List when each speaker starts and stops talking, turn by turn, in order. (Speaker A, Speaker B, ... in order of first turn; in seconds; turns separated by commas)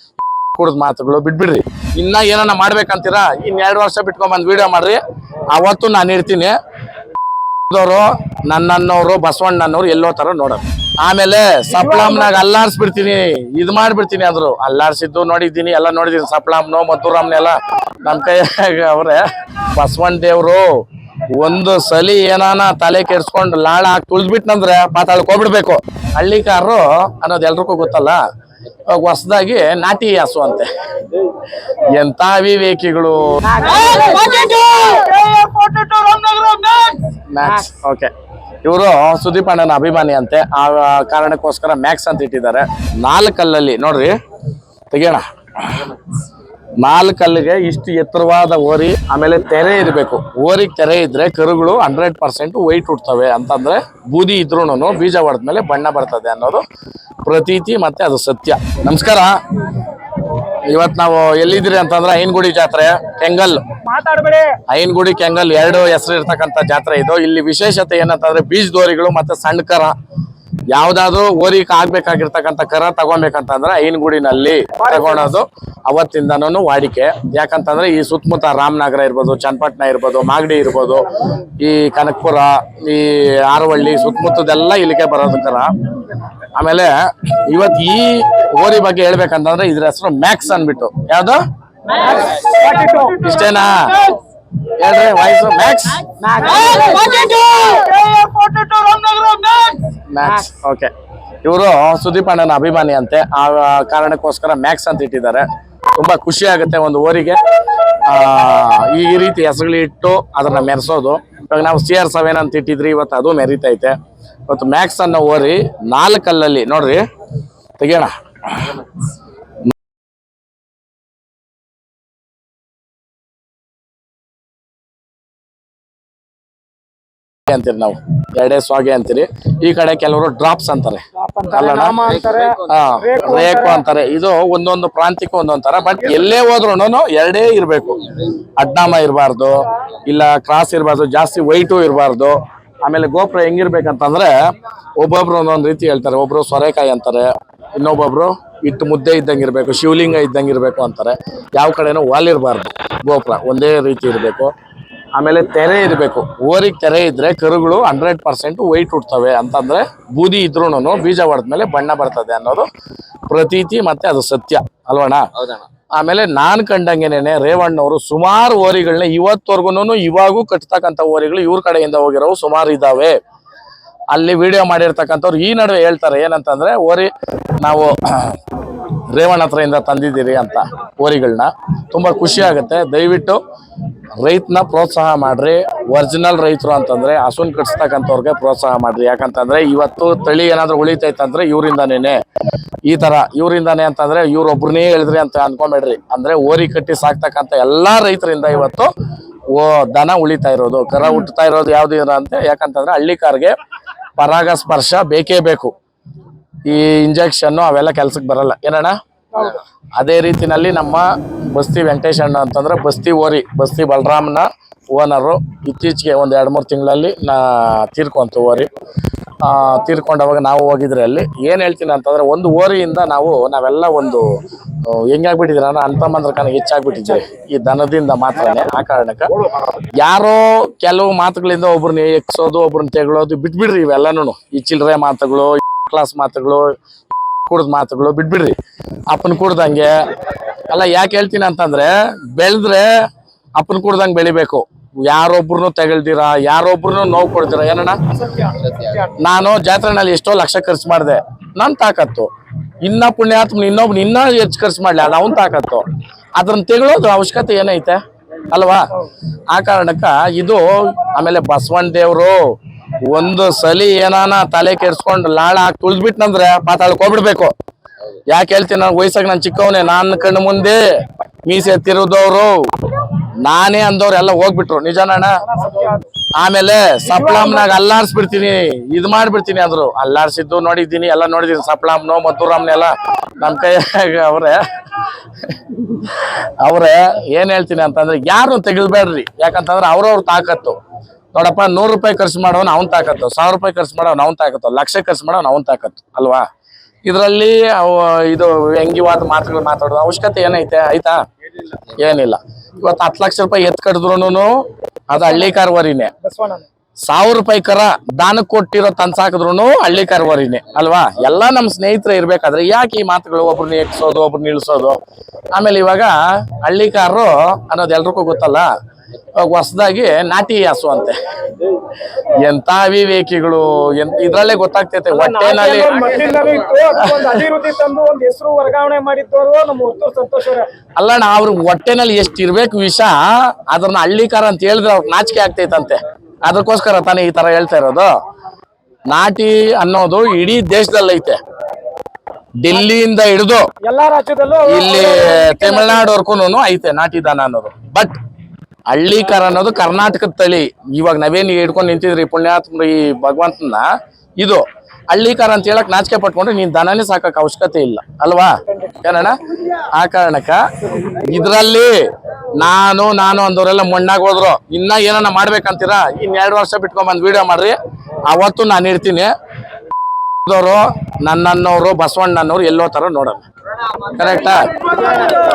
Speaker A: 0.6-5.0, Speaker A: 5.5-6.6, Speaker A: 7.7-20.8, Speaker B: 11.7-12.4, Speaker A: 21.4-28.2, Speaker A: 28.9-33.6, Speaker B: 33.5-37.1, Speaker A: 37.3-38.1, Speaker A: 38.6-44.1, Speaker A: 44.9-46.0, Speaker A: 46.8-56.6, Speaker A: 57.2-59.4, Speaker A: 60.5-63.7, Speaker B: 63.8-64.6, Speaker A: 64.7-70.0, Speaker A: 70.7-85.7, Speaker B: 74.8-75.3, Speaker A: 86.5-91.4, Speaker B: 91.9-94.2, Speaker A: 92.2-92.5, Speaker A: 93.2-96.3, Speaker B: 96.3-99.9, Speaker A: 100.1-100.9, Speaker A: 101.4-107.4, Speaker A: 107.9-114.0, Speaker A: 114.5-117.0, Speaker A: 117.8-118.9, Speaker A: 127.5-132.0, Speaker B: 131.2-133.9, Speaker A: 132.6-144.3, Speaker A: 145.0-154.5, Speaker A: 155.2-162.7, Speaker A: 163.3-173.2, Speaker A: 174.1-178.4, Speaker A: 179.1-183.4, Speaker A: 184.2-192.2, Speaker A: 192.9-198.9, Speaker A: 199.5-203.6, Speaker A: 204.2-205.7, Speaker A: 206.7-218.7, Speaker B: 209.4-209.6, Speaker A: 219.4-229.3, Speaker A: 230.0-236.8, Speaker A: 237.5-238.6, Speaker A: 239.1-240.1, Speaker A: 240.7-242.9, Speaker A: 243.6-248.0, Speaker A: 249.0-252.3, Speaker A: 252.8-255.8, Speaker A: 256.4-258.9, Speaker A: 259.5-262.5, Speaker A: 263.1-267.5, Speaker A: 268.3-270.8, Speaker A: 271.5-275.4, Speaker B: 275.5-276.1, Speaker A: 276.4-290.8, Speaker B: 277.1-277.8, Speaker A: 291.4-296.5, Speaker A: 297.1-301.2, Speaker A: 301.7-306.1, Speaker B: 306.2-306.7, Speaker A: 307.1-315.0, Speaker A: 315.6-318.7, Speaker A: 319.4-321.7, Speaker A: 322.3-326.0, Speaker B: 325.1-330.7, Speaker A: 326.9-327.5, Speaker A: 331.0-338.1, Speaker A: 339.1-341.4, Speaker A: 342.6-343.7, Speaker B: 343.8-346.1, Speaker A: 344.7-348.2, Speaker A: 348.9-353.9, Speaker A: 354.4-367.8, Speaker A: 368.3-369.3, Speaker A: 370.4-373.5, Speaker A: 374.0-375.1, Speaker B: 375.1-375.4